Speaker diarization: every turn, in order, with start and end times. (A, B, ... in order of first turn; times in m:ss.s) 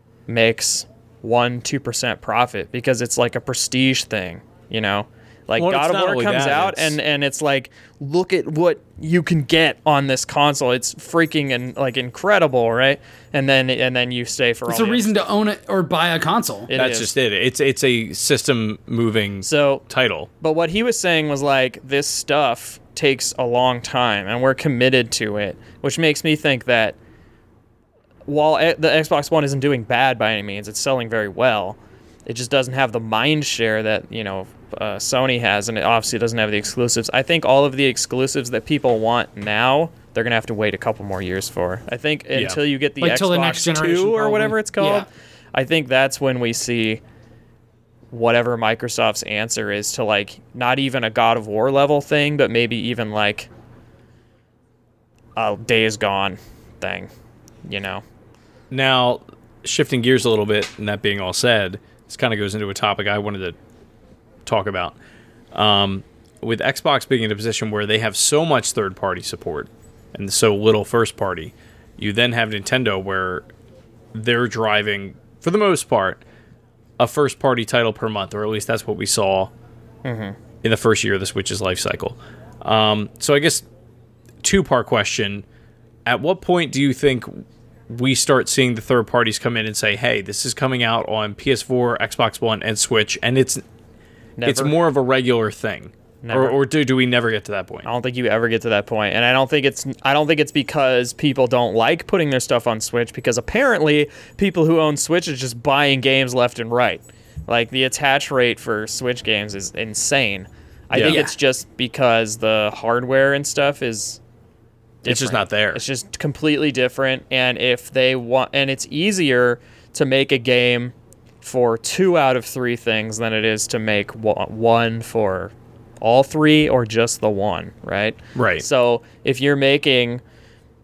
0:00.3-0:15.2 A
0:05.6-0:07.0 B
0:14.7-0:16.7 C
0:16.7-0:17.1 A
0:16.7-0:20.3 B
0:19.4-0:19.8 A
0:20.4-0:27.0 A
0:28.3-0:47.0 A
0:42.3-0:42.6 B
0:43.0-0:45.1 C
0:48.1-0:53.5 A
0:55.4-0:57.1 A
0:57.6-0:58.0 A
0:58.7-1:03.6 B
1:04.5-1:05.0 B
1:05.5-1:13.4 B
1:14.1-1:16.2 B
1:17.0-1:19.5 B
1:20.0-1:20.4 A
1:20.6-1:23.6 B
1:24.4-1:25.4 B
1:26.1-1:33.6 B
1:34.4-1:34.8 A
1:34.4-1:37.9 B
1:36.2-1:36.6 A
1:37.8-1:54.2 A
1:50.9-1:51.2 B
1:51.0-1:51.3 C
1:55.0-2:10.2 A
1:55.0-1:55.8 B
2:08.4-2:08.6 B